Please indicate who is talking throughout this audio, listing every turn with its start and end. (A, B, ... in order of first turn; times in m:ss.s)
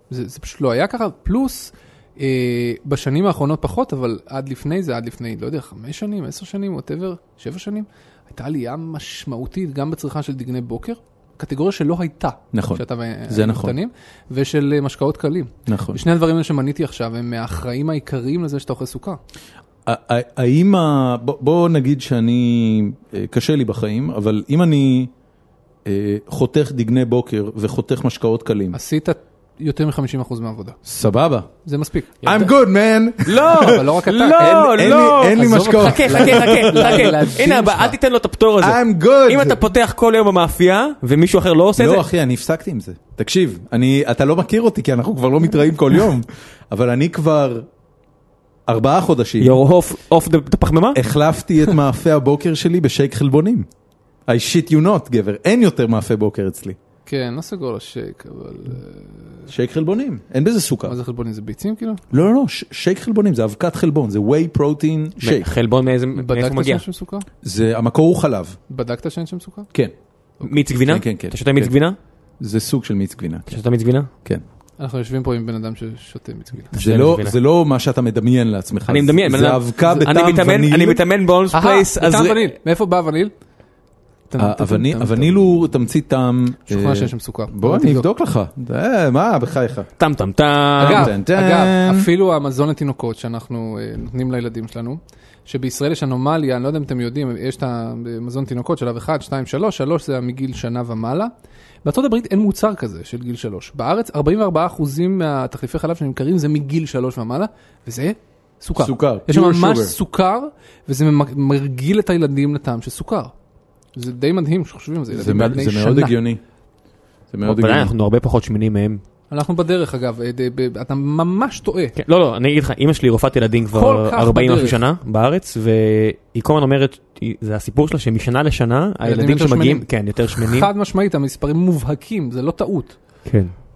0:00.1-0:19.2 A
0:12.5-0:13.8 B
0:15.7-0:16.0 B
0:19.9-0:25.1 B
0:25.8-0:28.8 B
0:28.7-0:30.8 A
0:30.9-0:31.5 B
0:31.6-0:32.1 A
0:32.2-0:32.5 C
0:32.2-0:33.8 B
0:33.3-0:42.0 C
0:33.5-0:38.0 A
0:34.4-0:37.3 B
0:38.6-0:39.6 B
0:41.8-0:47.7 B
0:48.7-0:49.6 B
0:49.4-0:51.0 C
0:51.0-0:53.7 B
0:54.3-0:56.8 B
0:57.1-0:59.5 A
0:59.5-1:01.0 B
1:00.9-1:02.2 A
1:02.1-1:05.5 B
1:05.2-1:06.8 C
1:06.2-1:07.3 A
1:07.4-1:08.6 B
1:08.7-1:09.7 A
1:10.4-1:12.0 C
1:10.9-1:11.7 B
1:12.4-1:13.6 B
1:13.5-1:14.1 C
1:14.8-1:16.8 A
1:16.7-1:17.4 C
1:16.8-1:21.0 B
1:18.9-1:22.6 C
1:21.5-1:23.3 A
1:24.3-1:25.5 A
1:24.4-1:29.9 B
1:26.7-1:28.1 A
1:30.0-1:31.1 C
1:30.8-1:41.3 A
1:30.9-1:32.1 B
1:41.8-1:53.3 A
1:48.8-1:50.0 B
1:53.9-1:56.2 A
1:55.1-1:56.4 B
1:57.3-1:57.9 B
1:57.4-1:59.0 C
1:59.3-2:02.0 A
2:02.0-2:10.7 C
2:03.7-2:04.8 A
2:09.0-2:13.2 A
2:13.3-2:13.6 C